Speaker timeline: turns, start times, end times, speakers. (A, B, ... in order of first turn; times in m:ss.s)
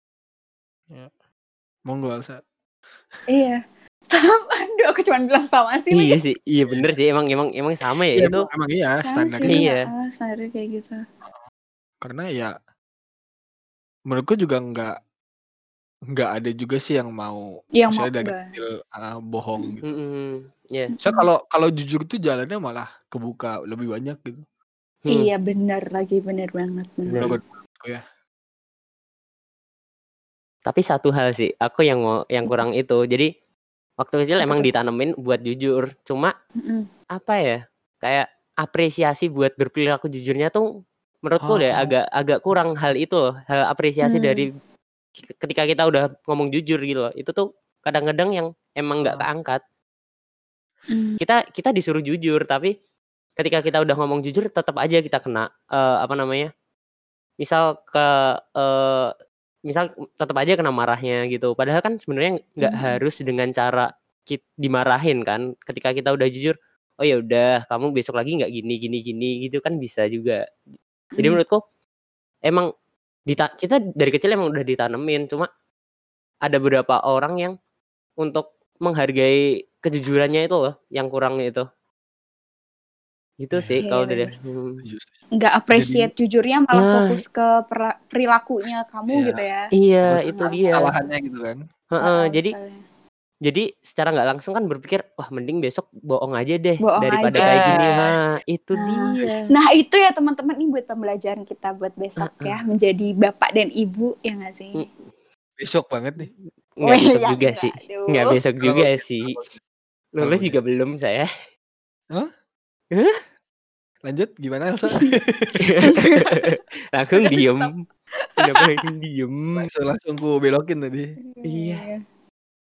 0:01.9-0:02.4 A
0:03.3-0:06.2 B
0:05.9-0:08.4 C
0:08.2-0:09.7 A
0:09.0-0:11.0 B
0:09.4-0:09.8 C
0:12.0-0:12.5 A
0:14.1-0:15.0 A
0:16.1-0:19.8 A
0:17.8-0:18.6 B
0:19.8-0:20.9 C
0:20.9-0:21.3 B
0:21.0-0:24.4 A
0:25.0-0:25.3 C
0:25.1-0:27.4 B
0:27.1-0:27.3 C
0:27.2-0:28.0 A
0:30.6-0:33.3 C
0:34.0-0:36.3 C
0:34.4-0:34.7 B
0:36.6-0:36.9 B
0:37.2-0:40.7 C
0:41.2-0:44.5 C
0:41.4-0:41.9 A
0:44.0-0:44.4 B
0:45.3-0:49.6 C
0:50.9-0:51.2 B
0:51.2-0:52.7 C
0:53.4-0:56.5 C
0:57.4-0:59.1 C
0:59.7-1:10.4 C
1:02.6-1:03.0 B
1:11.1-1:11.4 B
1:11.2-1:11.6 C
1:13.3-1:15.5 C
1:16.4-1:17.5 C
1:18.2-1:21.6 C
1:23.4-1:24.8 C
1:23.5-1:23.8 A
1:23.8-1:24.3 B
1:24.8-1:25.1 A
1:25.4-1:30.9 B
1:25.7-1:26.1 A
1:26.7-1:27.2 C
1:28.6-1:29.4 A
1:29.8-1:30.9 C
1:30.1-1:31.6 A
1:31.9-1:32.6 C
1:32.0-1:32.8 B
1:33.4-1:39.5 C
1:36.8-1:37.8 B
1:37.4-1:38.0 A
1:38.8-1:44.9 B
1:42.2-1:42.6 C
1:45.6-1:46.3 A
1:46.8-1:49.4 C
1:46.8-1:48.3 B
1:48.6-1:49.6 A
1:50.2-1:51.3 C
1:50.2-1:50.6 A
1:54.0-1:55.7 A
1:55.6-1:57.7 C
1:55.8-1:56.4 B
1:57.2-1:57.7 B
1:58.4-1:59.7 C
1:58.4-1:58.8 B
1:59.6-2:01.1 A
2:01.2-2:02.0 B
2:01.4-2:01.8 C